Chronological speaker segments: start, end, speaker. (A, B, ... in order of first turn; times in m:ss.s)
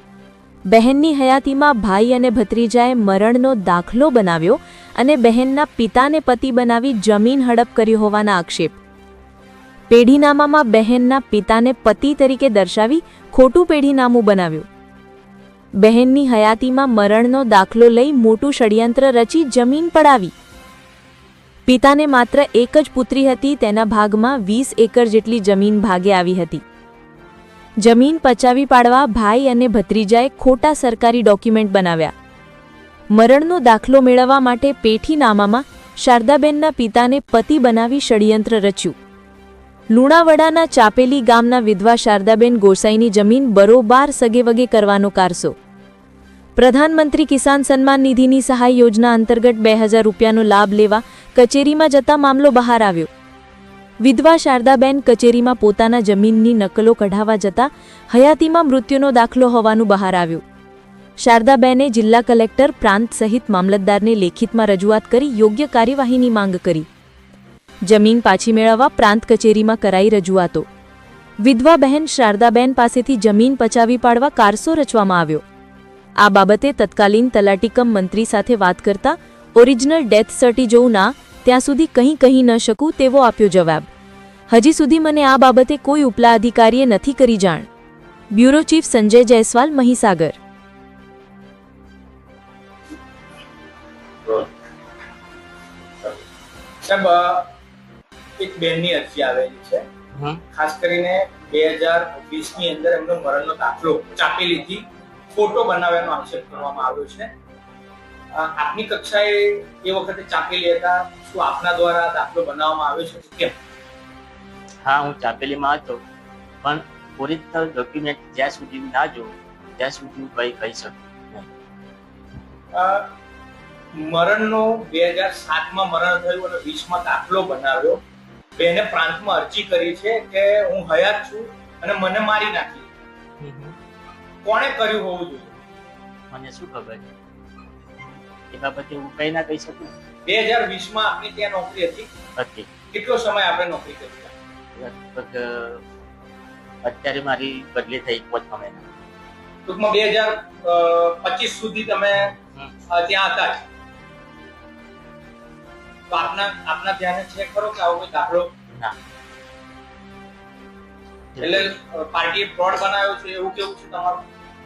0:00.7-0:08.8 A
0:09.9-0:14.7 A
0:15.8-0:20.3 A
0:21.6-0:26.6 A
0:27.8-0:32.1 A
0:33.1-0:38.9 A
0:39.9-0:45.5 A
0:46.6-0:53.1 A
0:54.0-1:00.4 A
1:01.2-1:06.9 A
1:07.8-1:10.7 A
1:11.4-1:15.4 A
1:16.2-1:23.9 A
1:24.5-1:27.7 A
1:28.3-1:30.4 A
1:36.8-1:37.5 B
1:38.4-1:39.8 B
1:40.1-1:40.4 C
1:40.5-1:47.3 B
1:48.3-1:53.6 B
1:54.8-1:56.0 C
1:56.6-2:01.5 C
2:02.7-2:03.1 B
2:03.9-2:08.0 B
2:08.6-2:12.9 B
2:13.4-2:13.8 C
2:14.4-2:15.5 B
2:16.3-2:17.0 C
2:18.5-2:19.9 C
2:20.2-2:22.1 B
2:22.4-2:22.7 C
2:22.9-2:24.3 B
2:24.7-2:25.8 C
2:26.8-2:28.8 C
2:29.7-2:32.3 B
2:32.9-2:33.6 B
2:36.1-2:38.5 B
2:41.4-2:41.7 C
2:41.4-2:44.2 B